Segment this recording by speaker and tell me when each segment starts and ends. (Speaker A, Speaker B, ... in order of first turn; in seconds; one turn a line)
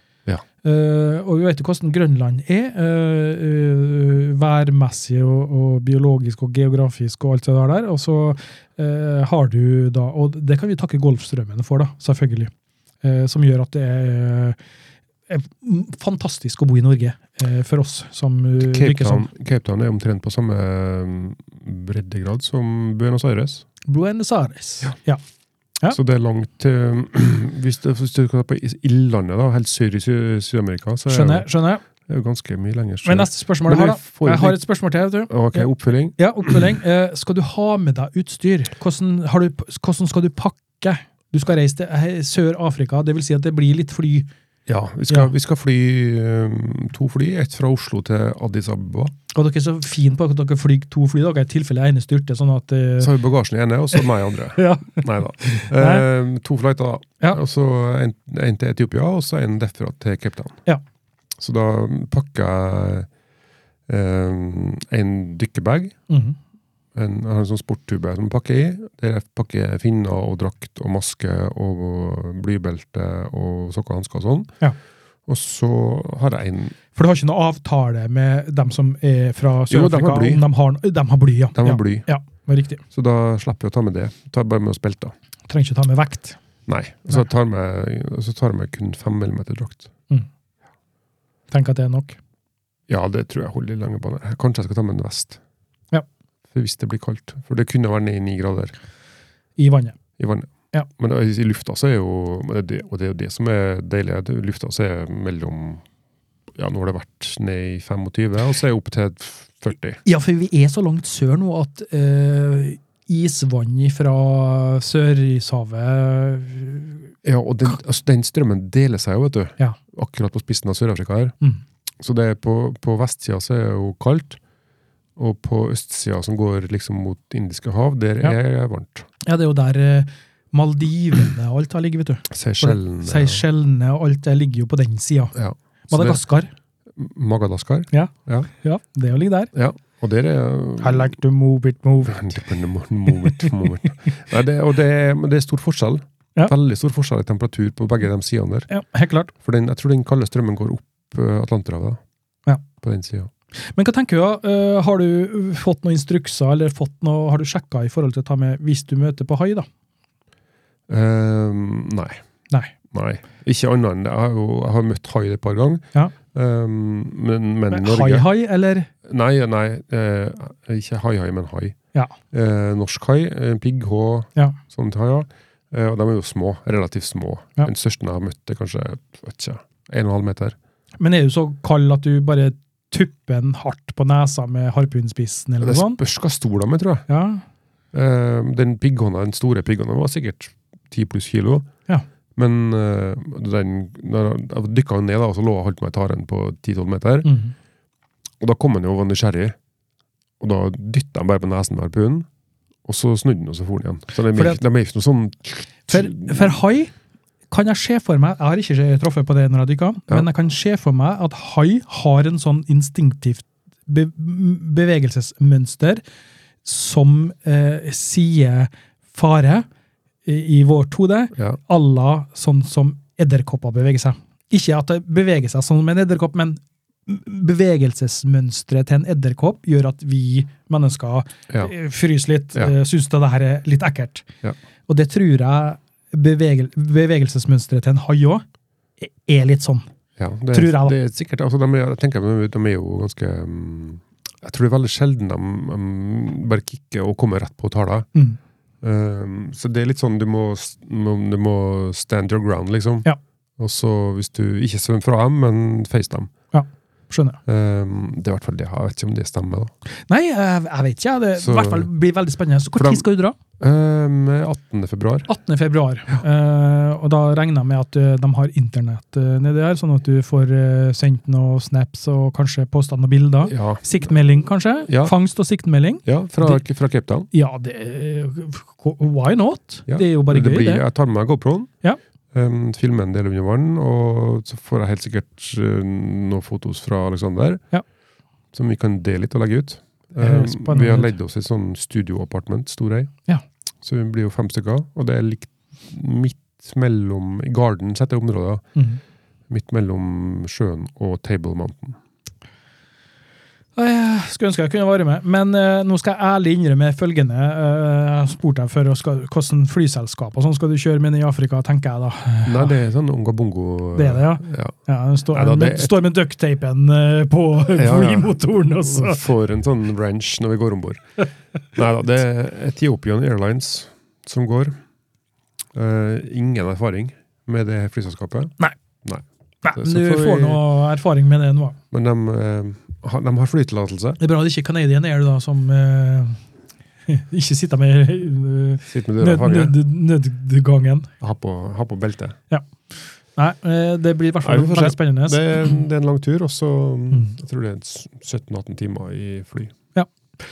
Speaker A: 0.6-12.5
Speaker A: 13.0-14.6
Speaker A: 15.3-19.3
Speaker B: 18.6-23.6
Speaker A: 23.9-25.2
Speaker B: 25.9-34.6
Speaker A: 31.1-31.8
Speaker A: 33.0-44.3
Speaker B: 35.3-36.7
Speaker B: 44.7-49.1
Speaker A: 49.3-53.1
Speaker B: 53.0-60.6
Speaker A: 53.9-56.0
Speaker B: 61.4-63.1
Speaker B: 63.9-66.0
Speaker A: 66.1-66.4
Speaker B: 66.9-74.5
Speaker B: 75.3-76.8
Speaker A: 76.9-82.8
Speaker B: 79.7-80.4
Speaker B: 81.5-82.1
Speaker B: 82.9-85.1
Speaker A: 85.5-86.4
Speaker B: 86.7-89.9
Speaker A: 91.5-92.2
Speaker B: 92.9-95.4
Speaker B: 96.5-98.7
Speaker A: 99.6-100.0
Speaker B: 100.2-105.8
Speaker B: 106.5-110.0
Speaker A: 110.0-117.1
Speaker B: 117.2-121.3
Speaker B: 122.0-124.4
Speaker B: 125.2-129.1
Speaker A: 129.2-135.3
Speaker B: 132.3-133.4
Speaker B: 135.3-136.2
Speaker A: 135.9-136.5
Speaker B: 136.9-138.5
Speaker A: 137.9-139.5
Speaker B: 139.5-141.2
Speaker A: 140.8-142.4
Speaker B: 142.1-148.7
Speaker A: 143.1-143.6
Speaker A: 148.7-149.3
Speaker B: 149.3-152.0
Speaker B: 152.8-153.3
Speaker A: 153.7-159.7
Speaker B: 160.9-162.2
Speaker B: 162.9-168.3
Speaker A: 167.7-168.9
Speaker B: 169.0-171.8
Speaker B: 172.3-180.6
Speaker A: 181.0-186.0
Speaker B: 185.6-187.1
Speaker A: 187.1-187.4
Speaker B: 187.9-191.7
Speaker B: 192.3-197.3
Speaker A: 197.2-197.5
Speaker B: 198.4-199.6
Speaker B: 200.4-202.3
Speaker B: 202.8-206.6
Speaker A: 204.3-204.6
Speaker A: 205.9-206.9
Speaker A: 207.5-216.0
Speaker A: 216.6-219.7
Speaker A: 220.2-234.2
Speaker A: 234.9-238.4
Speaker A: 239.0-239.8
Speaker B: 240.2-248.1
Speaker A: 240.5-240.9
Speaker B: 248.8-256.3
Speaker A: 256.5-257.4
Speaker B: 257.4-259.7
Speaker A: 260.1-263.4
Speaker B: 261.4-261.9
Speaker B: 262.8-263.0
Speaker B: 263.6-265.3
Speaker A: 265.3-276.6
Speaker B: 273.5-274.1
Speaker B: 274.9-275.1
Speaker B: 276.0-277.3
Speaker A: 277.3-280.8
Speaker B: 279.9-281.7
Speaker B: 282.3-287.6
Speaker B: 288.5-293.1
Speaker A: 290.2-291.2
Speaker B: 293.8-298.7
Speaker B: 299.5-302.0
Speaker A: 303.8-312.7
Speaker B: 312.4-314.7
Speaker A: 313.9-319.2
Speaker B: 315.3-315.9
Speaker B: 317.7-324.8
Speaker B: 325.7-330.6
Speaker A: 329.6-331.8
Speaker B: 331.9-334.2
Speaker A: 334.2-336.4
Speaker A: 337.1-341.1
Speaker B: 338.9-339.7
Speaker B: 341.2-342.4
Speaker A: 343.3-345.7
Speaker B: 344.4-349.7